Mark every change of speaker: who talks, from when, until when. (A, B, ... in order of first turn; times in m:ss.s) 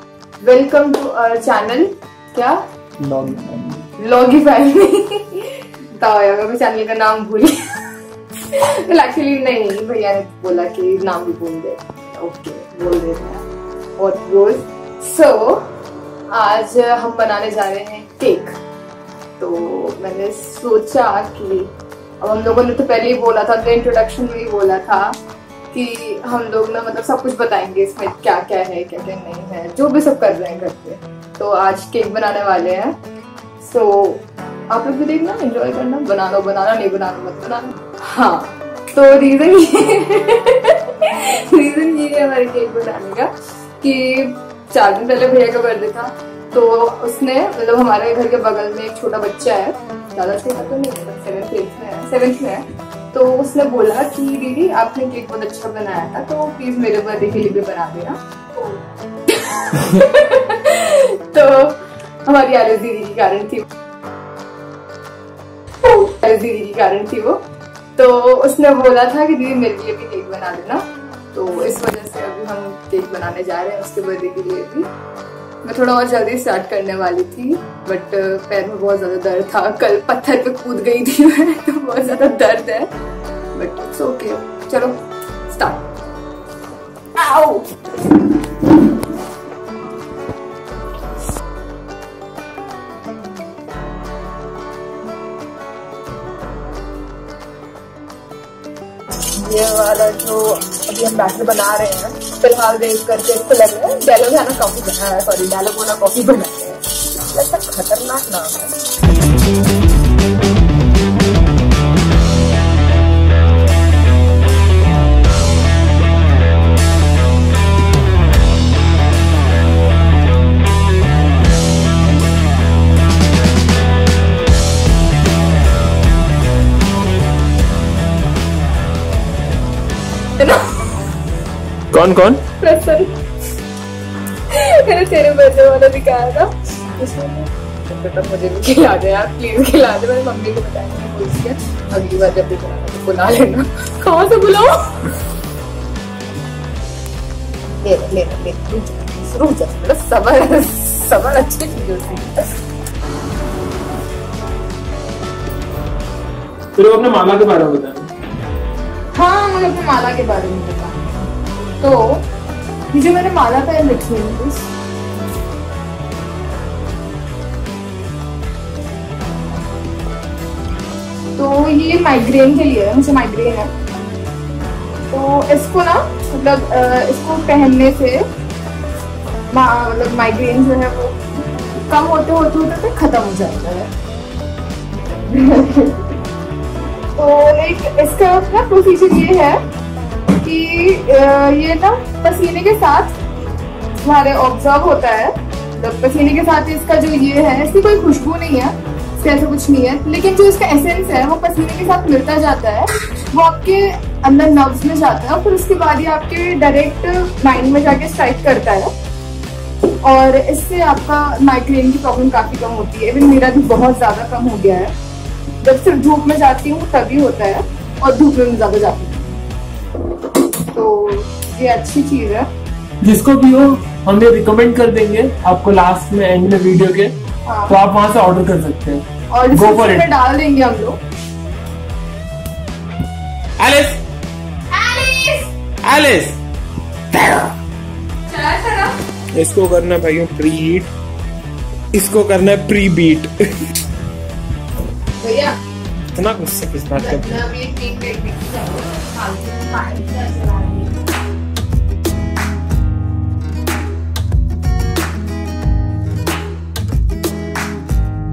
0:00.4-0:02.6 A
0:03.0-0:03.8 B
0:04.0-0:13.4 A
0:14.0-0:15.7 A
0:16.3-0:18.6 A
0:19.4-0:25.2 A
0:25.7-0:33.0 A
0:33.6-1:03.6 A
1:05.8-1:07.4 A
1:08.0-1:14.9 A
1:15.6-1:22.9 A
1:23.5-1:25.9 A
1:27.2-1:27.8 A
1:39.3-1:48.8 A
2:10.4-2:10.6 A
2:11.9-2:12.4 B
2:12.6-2:13.1 A
2:14.5-2:25.1 A
2:27.8-2:32.5 A
2:36.8-2:38.1 B
2:39.1-2:41.3 A
2:41.8-2:42.3 A
2:42.9-2:44.7 A
2:51.4-2:53.7 A
2:55.1-2:58.3 A
2:59.5-3:01.2 A
3:01.7-3:03.9 A
3:05.2-3:06.1 A
3:07.2-3:09.6 A
3:10.4-3:13.1 A
3:14.0-3:28.9 A
3:30.0-3:34.9 A
3:35.6-3:39.4 A
3:40.6-3:42.5 A
3:43.0-3:47.2 B
3:47.5-3:47.8 A
3:47.7-3:50.1 B
3:49.3-3:51.0 A
3:53.6-3:54.0 B
3:54.7-3:55.5 A
3:55.8-3:56.4 B
3:57.1-3:57.5 B
3:58.3-3:59.0 A
3:59.3-4:00.9 B
4:01.9-4:03.4 B
4:05.2-4:05.6 A
4:06.2-4:07.4 B
4:07.0-4:11.1 A